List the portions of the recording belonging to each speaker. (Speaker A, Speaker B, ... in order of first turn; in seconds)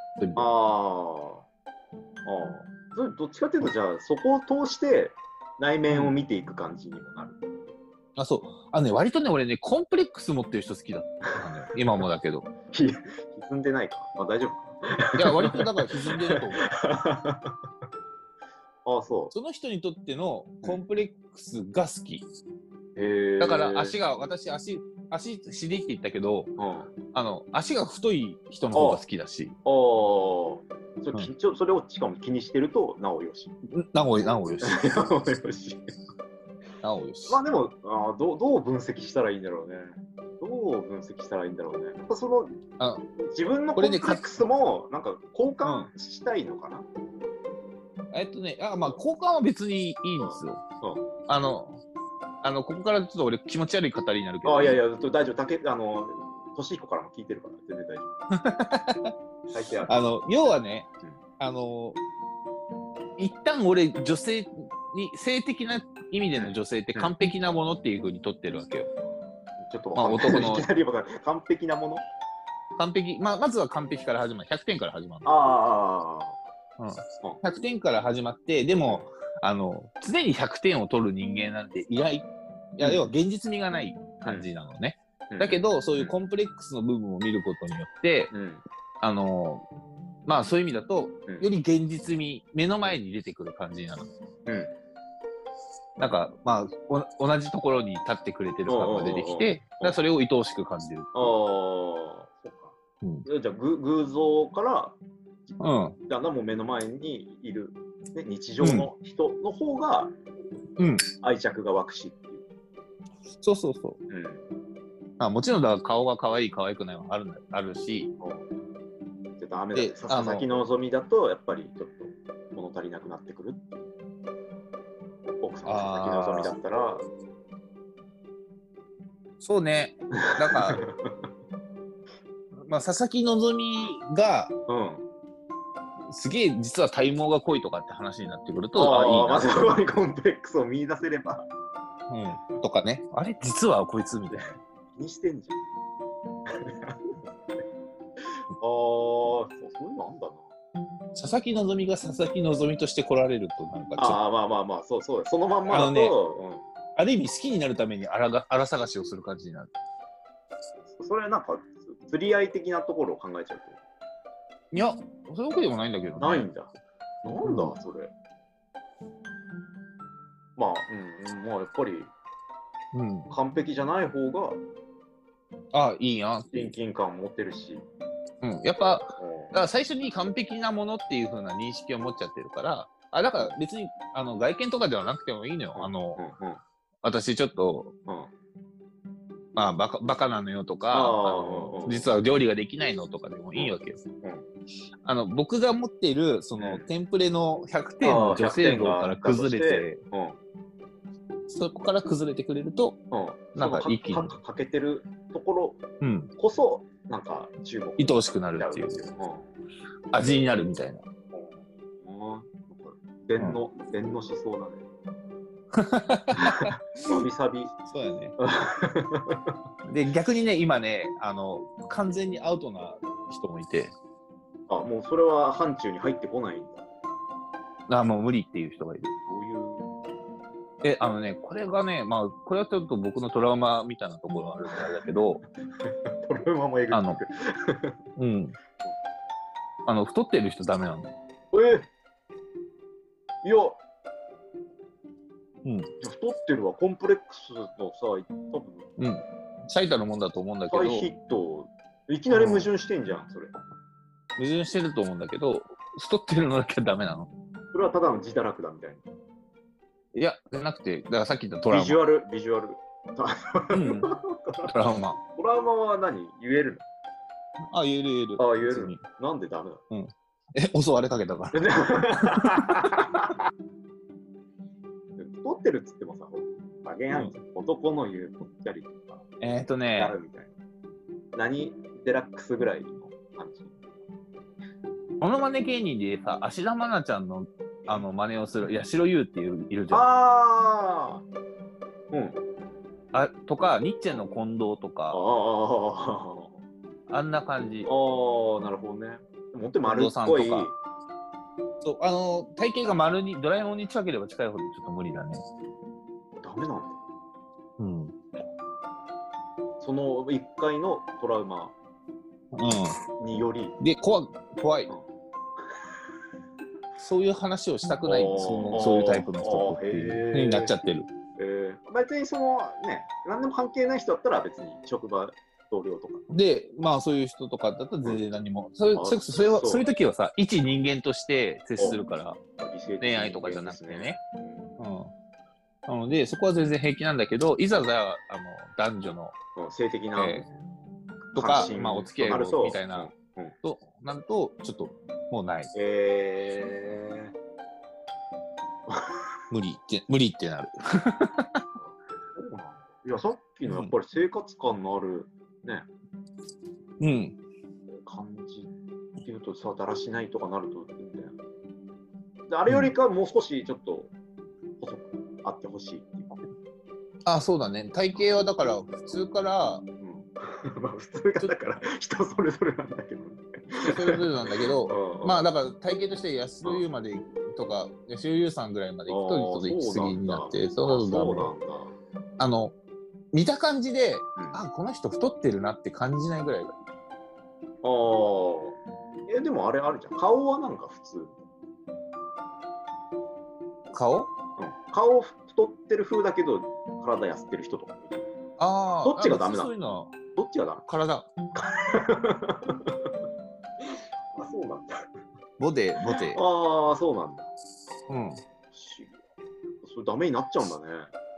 Speaker A: 0.2-0.5, 5.9-6.2, 8.2-12.5, 15.2-16.7, 19.3-22.3, 23.4-26.5, 27.1-29.6, 33.7-35.1, 36.8-37.4, 42.8-43.0, 43.8-44.3, 45.6-45.9, 48.1-50.6, 51.3-51.8, 52.4-54.8, 58.3-59.1, 59.9-62.0, 63.2-68.9, 70.0-70.7, 72.8-75.3, 76.8-88.3, 89.0-89.7, 90.3-94.1, 96.0-101.3, 105.6-106.0, 108.6-108.9, 110.8-111.1, 113.4-114.0, 115.2-118.1, 119.8-120.5, 125.7-126.5, 129.4-130.8, 132.6-134.5, 136.1-139.8, 142.1-144.6, 151.2-154.2, 155.7-156.2, 157.0-159.7, 164.7-166.5, 167.4-167.8, 172.9-173.3, 175.7-176.7, 178.4-186.2, 187.0-187.9, 189.6-194.0, 195.0-200.0, 201.5-203.0, 203.6-204.4, 206.0-206.3, 208.0-209.0, 210.1-211.0, 215.7-217.2, 217.9-218.3, 219.8-223.9, 227.9-229.1, 230.8-235.4, 236.9-237.2, 238.2-238.6, 239.9-241.1, 245.6-245.9, 249.0-251.1, 252.3-252.7, 254.4-257.3, 260.1-262.0, 263.7-264.1, 264.7-265.2, 267.7-269.0, 269.9-271.6, 279.4-280.2, 285.2-290.1, 293.1-295.2, 297.1-297.9, 299.9-300.7, 301.8-305.4, 307.8-308.2, 312.5-313.0, 313.8-314.9, 317.0-321.1, 326.3-332.4, 333.0-334.2, 334.8-335.1, 335.9-339.4, 340.2-340.5, 341.4-343.1, 343.6-345.7, 349.5-351.6, 353.7-353.9, 357.0-357.4, 367.2-369.8, 373.9-381.5, 382.4-382.8, 383.3-386.7, 393.9-394.3, 398.6-400.1, 400.9-401.3, 405.6-406.4, 408.1-408.4
Speaker B: 0.4-1.4, 2.2-7.4, 11.4-11.7, 12.7-17.6, 18.9-19.3, 23.0-24.0, 26.6-26.9, 28.7-29.0, 29.6-33.5, 34.6-35.9, 37.3-42.6, 43.2-46.9, 50.2-51.1, 54.4-58.1, 59.5-60.0, 66.3-67.1, 69.6-72.0, 75.2-76.4, 82.8-83.1, 85.3-86.2, 88.3-88.6, 94.5-94.7, 98.7-100.0, 101.1-105.0, 105.5-110.1, 111.2-112.4, 114.1-114.4, 118.2-118.5, 119.4-123.9, 125.4-127.0, 130.2-131.2, 134.7-135.1, 138.8-141.5, 144.3-145.6, 146.5-147.3, 148.3-150.5, 154.0-156.6, 161.0-163.8, 166.2-166.7, 167.2-168.1, 170.6-172.1, 173.3-174.6, 176.5-177.9, 179.2-179.6, 185.8-186.6, 190.9-192.1, 193.6-194.5, 196.6-196.9, 198.0-200.4, 203.1-205.8, 206.4-209.5, 211.3-214.8, 216.4-217.8, 218.4-219.4, 224.7-226.9, 229.3-229.9, 235.8-238.0, 241.5-241.9, 243.4-243.8, 246.0-248.9, 250.7-253.6, 257.7-259.0, 261.7-264.7, 265.3-266.9, 268.4-269.8, 271.5-273.3, 275.2-279.2, 279.9-280.5, 281.3-283.9, 289.9-291.2, 292.1-292.4, 295.1-296.6, 297.9-300.8, 306.4-307.0, 309.8-311.7, 313.2-313.8, 318.0-320.7, 321.4-326.2, 328.9-329.9, 332.6-334.8, 339.6-340.6, 341.3-343.6, 345.7-347.3, 351.8-355.9, 358.0-358.7, 359.2-361.4, 362.5-364.1, 364.8-366.4, 370.0-374.3, 374.9-375.5, 379.1-381.9, 384.4-384.6, 387.8-388.8, 389.3-391.4, 394.6-398.3, 399.0-399.7, 400.3-400.9, 401.5-402.9, 403.8-405.0, 406.3-407.5, 408.7-409.2, 409.8-411.1